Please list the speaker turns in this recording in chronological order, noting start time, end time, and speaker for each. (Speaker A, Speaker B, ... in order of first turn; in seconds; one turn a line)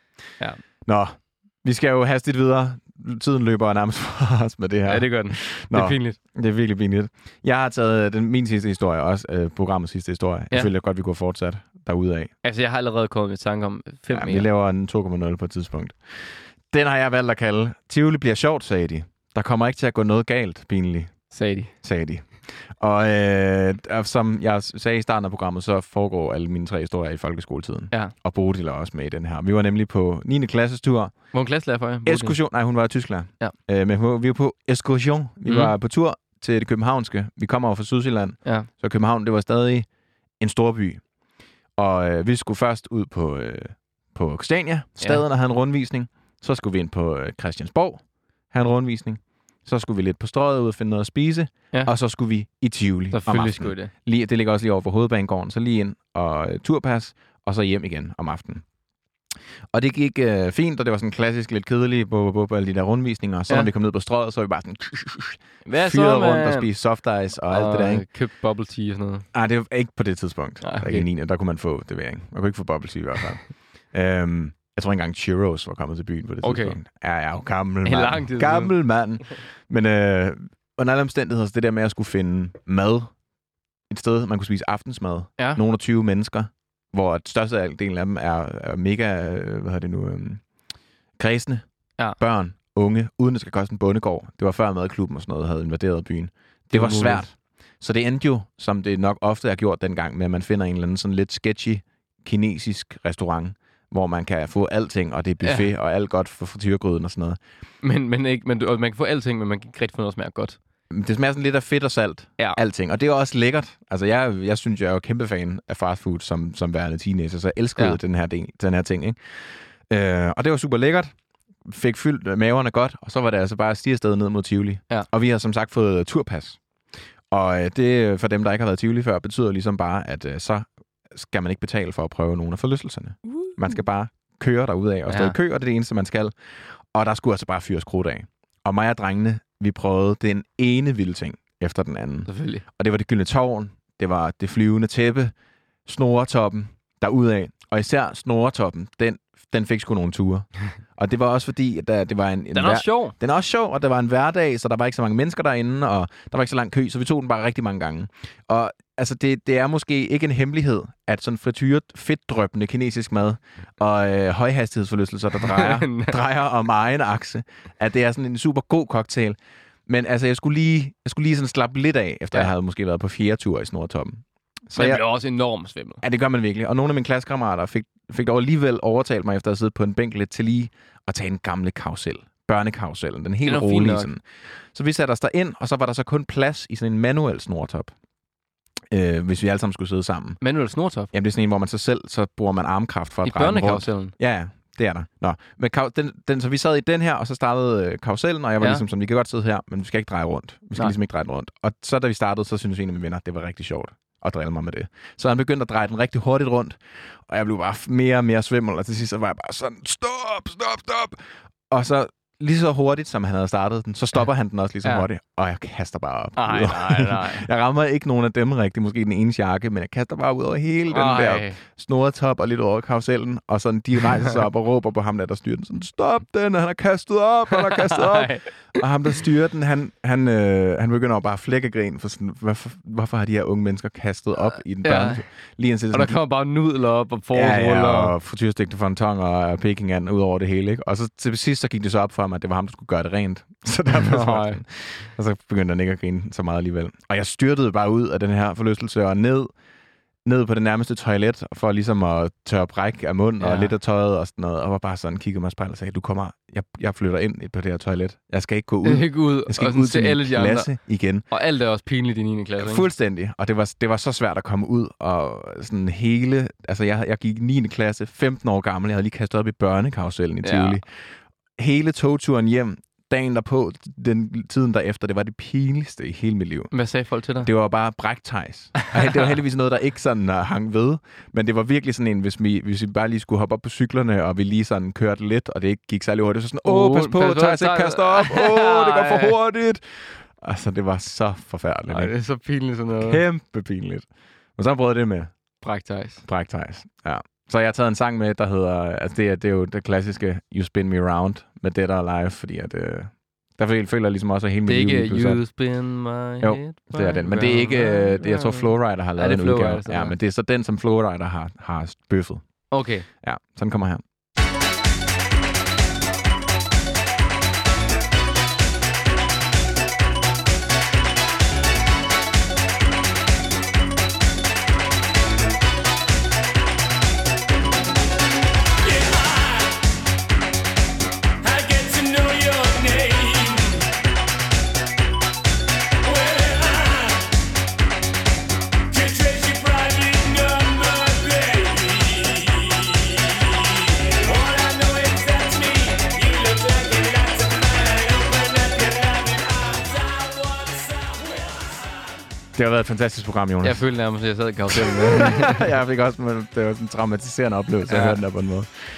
Speaker A: 0.8-12.3
Speaker B: 4.9-6.2
Speaker B: 12.4-14.5
Speaker A: 14.1-31.3
Speaker B: 21.3-21.7
Speaker B: 31.3-32.4
Speaker A: 32.0-39.9
Speaker B: 35.5-35.7
Speaker A: 40.4-41.0
Speaker A: 41.8-58.6
Speaker B: 53.1-53.9
Speaker A: 59.7-68.1
Speaker B: 65.7-66.7
Speaker B: 67.5-69.3
Speaker A: 69.3-83.1
Speaker B: 70.6-71.1
Speaker B: 76.4-76.8
Speaker B: 77.8-78.7
Speaker A: 83.9-90.4
Speaker A: 91.2-91.6
Speaker A: 92.2-107.4
Speaker B: 96.7-97.3
Speaker B: 107.8-110.6
Speaker A: 110.9-119.2
Speaker A: 119.9-121.1
Speaker A: 121.6-126.6
Speaker A: 127.3-136.3
Speaker B: 133.3-133.6
Speaker B: 135.1-135.4
Speaker A: 136.9-145.3
Speaker B: 142.3-142.6
Speaker A: 145.8-175.0
Speaker B: 152.5-153.1
Speaker B: 165.4-166.2
Speaker B: 174.7-176.0
Speaker A: 176.0-184.2
Speaker B: 183.4-184.1
Speaker A: 184.7-187.9
Speaker A: 188.9-190.4
Speaker B: 190.4-191.1
Speaker A: 191.1-236.2
Speaker B: 193.2-194.1
Speaker B: 216.3-217.5
Speaker B: 220.9-221.6
Speaker B: 227.5-228.5
Speaker B: 234.4-235.2
Speaker B: 235.9-238.1
Speaker A: 237.3-249.5
Speaker B: 243.9-244.6
Speaker A: 250.2-261.2
Speaker B: 253.4-253.7
Speaker B: 258.8-260.7
Speaker B: 261.3-262.9
Speaker A: 262.6-270.9
Speaker B: 270.4-270.8
Speaker A: 271.6-276.7
Speaker B: 276.7-277.5
Speaker A: 277.4-292.1
Speaker B: 278.9-279.3
Speaker B: 286.6-289.4
Speaker B: 291.9-293.2
Speaker A: 293.0-294.1
Speaker A: 294.6-295.3
Speaker B: 295.6-296.2
Speaker A: 296.2-305.4
Speaker B: 304.6-310.1
Speaker A: 306.4-312.6
Speaker B: 312.7-313.1
Speaker A: 313.2-314.0
Speaker C: 328.8-329.8
Speaker C: 331.4-333.9
Speaker C: 336.0-337.3
Speaker C: 338.9-351.9
Speaker A: 352.6-353.9
Speaker B: 353.6-355.6
Speaker A: 354.7-358.7
Speaker B: 357.9-358.2